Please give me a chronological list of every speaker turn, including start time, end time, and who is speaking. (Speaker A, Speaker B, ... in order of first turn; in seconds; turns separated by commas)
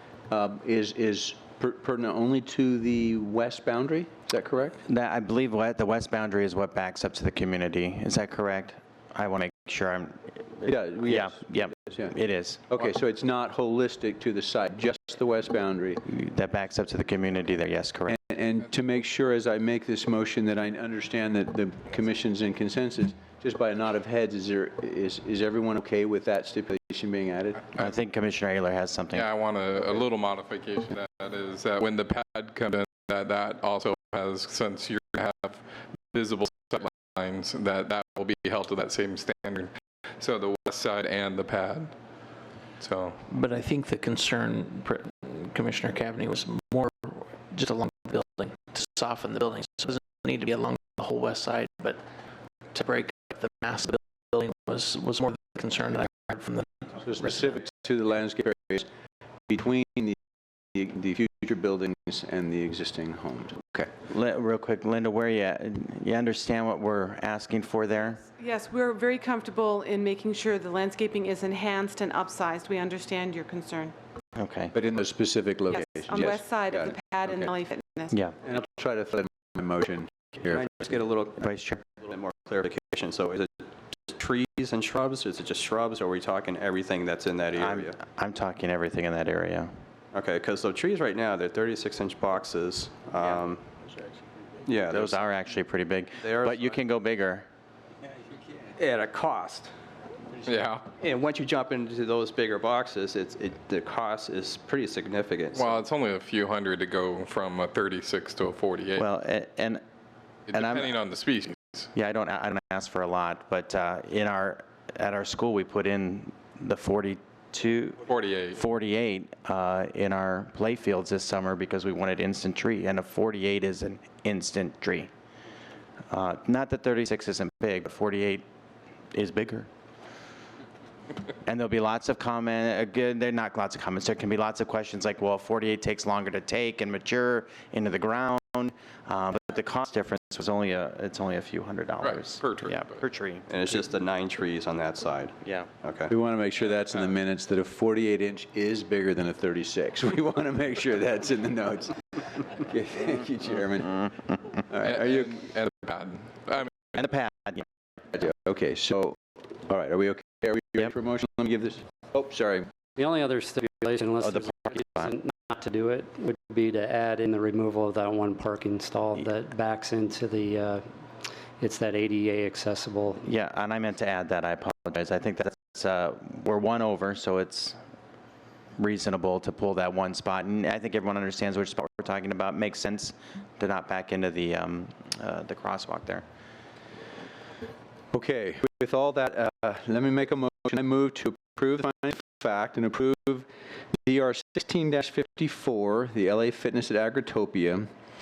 Speaker A: 0.3-4.8, Speaker B: 4.9-12.7, Speaker A: 10.6-12.1, Speaker A: 12.7-16.0, Speaker B: 16.1-18.2, Speaker A: 18.1-27.6, Speaker B: 27.7-29.3, Speaker C: 29.1-41.9, Speaker C: 42.8-43.2, Speaker D: 43.3-44.6, Speaker D: 45.1-47.0, Speaker D: 47.5-51.9, Speaker D: 52.8-56.6, Speaker A: 57.0-58.9, Speaker A: 59.5-60.2, Speaker A: 60.7-63.8, Speaker B: 63.8-68.2, Speaker E: 68.3-73.9, Speaker B: 74.4-74.7, Speaker A: 74.7-76.9, Speaker E: 75.7-78.1, Speaker A: 78.4-80.7, Speaker F: 80.5-88.0, Speaker B: 81.4-81.8, Speaker B: 87.6-89.7, Speaker F: 90.1-93.6, Speaker F: 94.6-95.2, Speaker B: 94.9-97.5, Speaker F: 96.2-96.8, Speaker F: 98.8-99.7, Speaker C: 100.5-100.9, Speaker F: 101.0-105.9, Speaker C: 105.5-109.0, Speaker B: 109.0-109.8, Speaker C: 110.5-111.9, Speaker B: 110.5-110.9, Speaker B: 111.9-118.0, Speaker C: 118.1-118.6, Speaker B: 118.5-125.1, Speaker B: 126.1-128.4, Speaker B: 129.1-129.7, Speaker B: 131.4-143.4, Speaker C: 142.0-143.0, Speaker F: 143.5-146.1, Speaker A: 146.1-154.9, Speaker C: 154.8-156.7, Speaker B: 156.9-157.6, Speaker A: 158.1-162.7, Speaker G: 162.9-170.8, Speaker G: 171.6-173.2, Speaker B: 173.2-177.8, Speaker B: 178.8-186.2, Speaker A: 188.1-197.9